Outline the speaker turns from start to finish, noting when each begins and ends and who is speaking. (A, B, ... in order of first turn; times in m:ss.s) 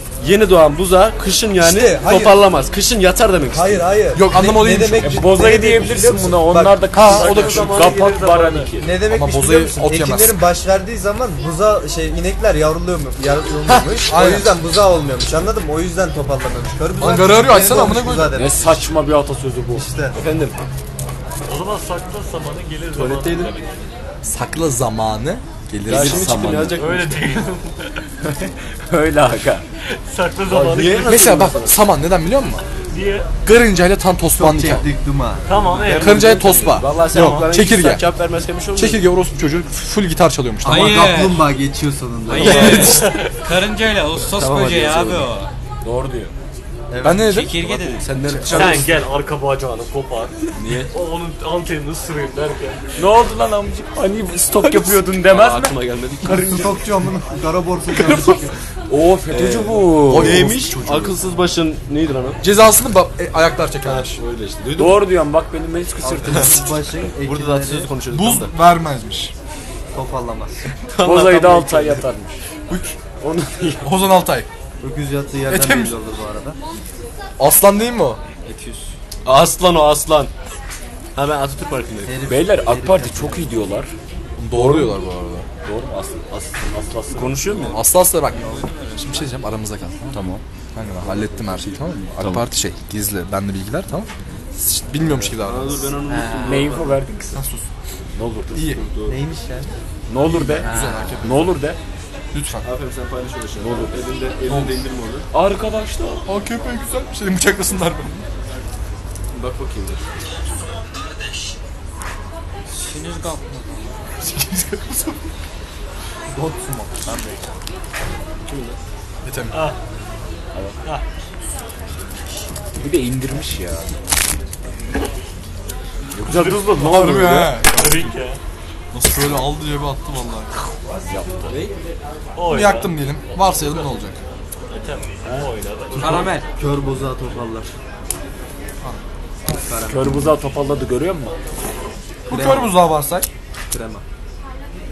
0:00.2-0:04.0 A
0:01.6-0:02.4 B
0:03.5-0:06.7 B
0:04.1-0:05.2 C
0:05.0-0:08.9 D
0:06.9-0:07.8 C
0:07.0-0:08.7 E
0:08.8-0:18.9 B
0:08.9-0:10.4 C
0:13.9-0:14.5 C
0:17.0-0:18.3 C
0:18.3-0:19.9 D
0:19.7-0:20.2 B
0:20.1-0:20.6 A
0:21.5-0:23.7 E
0:22.9-0:23.5 A
0:24.2-0:26.8 C
0:25.9-0:27.4 A
0:26.8-0:28.0 E
0:28.9-0:29.6 D
0:29.9-0:31.2 E
0:30.5-0:31.8 A
0:31.0-0:32.6 C
0:32.9-0:33.3 E
0:33.4-0:34.9 C
0:34.3-0:35.7 B
0:35.4-0:36.3 E
0:35.8-0:39.0 A
0:35.8-0:38.0 C
0:38.8-0:41.0 C
0:40.6-0:41.5 F
0:40.6-0:43.1 B
0:42.3-0:45.5 F
0:42.3-0:43.0 A
0:42.6-0:43.0 C
0:42.8-0:43.4 E
0:44.3-0:45.3 A
0:45.8-0:46.3 D
0:46.9-0:47.4 B
0:47.0-0:47.6 C
0:47.2-0:48.1 F
0:47.6-0:49.0 A
0:48.3-0:48.7 C
0:48.3-0:48.8 B
0:48.4-0:52.8 E
0:50.6-0:50.9 A
0:53.0-0:56.8 D
0:54.6-0:56.8 A
0:56.3-0:58.6 B
0:57.9-1:00.6 D
0:59.3-1:02.4 A
1:00.0-1:01.2 C
1:02.4-1:04.2 C
1:03.8-1:05.1 A
1:04.8-1:06.6 D
1:06.0-1:07.9 B
1:06.2-1:08.6 A
1:08.1-1:09.3 C
1:09.9-1:10.7 B
1:10.9-1:12.0 A
1:11.0-1:12.4 D
1:12.7-1:13.0 C
1:13.2-1:13.9 D
1:13.8-1:14.5 C
1:14.8-1:16.6 B
1:15.5-1:15.9 C
1:17.4-1:18.2 C
1:18.4-1:18.9 B
1:19.2-1:20.3 A
1:21.2-1:22.2 A
1:22.0-1:23.6 B
1:22.2-1:23.9 D
1:24.4-1:25.5 C
1:24.5-1:25.0 A
1:25.6-1:27.7 D
1:27.1-1:27.8 A
1:27.7-1:28.4 C
1:29.0-1:30.1 C
1:30.1-1:30.4 D
1:30.7-1:35.9 C
1:35.2-1:37.0 A
1:36.1-1:36.7 F
1:36.4-1:37.4 D
1:37.3-1:37.6 C
1:38.1-1:38.6 D
1:38.5-1:38.8 C
1:38.6-1:39.2 A
1:39.0-1:39.7 B
1:40.1-1:40.7 D
1:40.2-1:41.4 C
1:40.6-1:41.2 F
1:41.2-1:41.8 D
1:42.3-1:42.6 C
1:42.6-1:45.2 A
1:43.6-1:44.0 D
1:45.3-1:46.2 D
1:46.2-1:48.2 C
1:49.3-1:50.0 A
1:52.7-1:54.0 F
1:54.2-1:55.2 C
1:56.3-1:57.4 B
1:58.4-1:58.8 A
1:59.2-1:59.6 C
1:59.5-1:59.8 E
2:02.8-2:03.9 D
2:06.1-2:07.6 D
2:06.2-2:06.9 E
2:06.7-2:08.1 C
2:07.7-2:08.4 E
2:08.9-2:10.5 C
2:11.1-2:11.5 D
2:11.5-2:11.7 A
2:12.4-2:13.7 E
2:12.5-2:14.2 C
2:14.7-2:16.3 E
2:16.0-2:16.5 F
2:16.0-2:16.3 D
2:16.6-2:17.7 B
2:19.6-2:20.3 B
2:19.8-2:21.3 D
2:22.3-2:23.3 C
2:22.3-2:22.9 B
2:23.7-2:24.0 B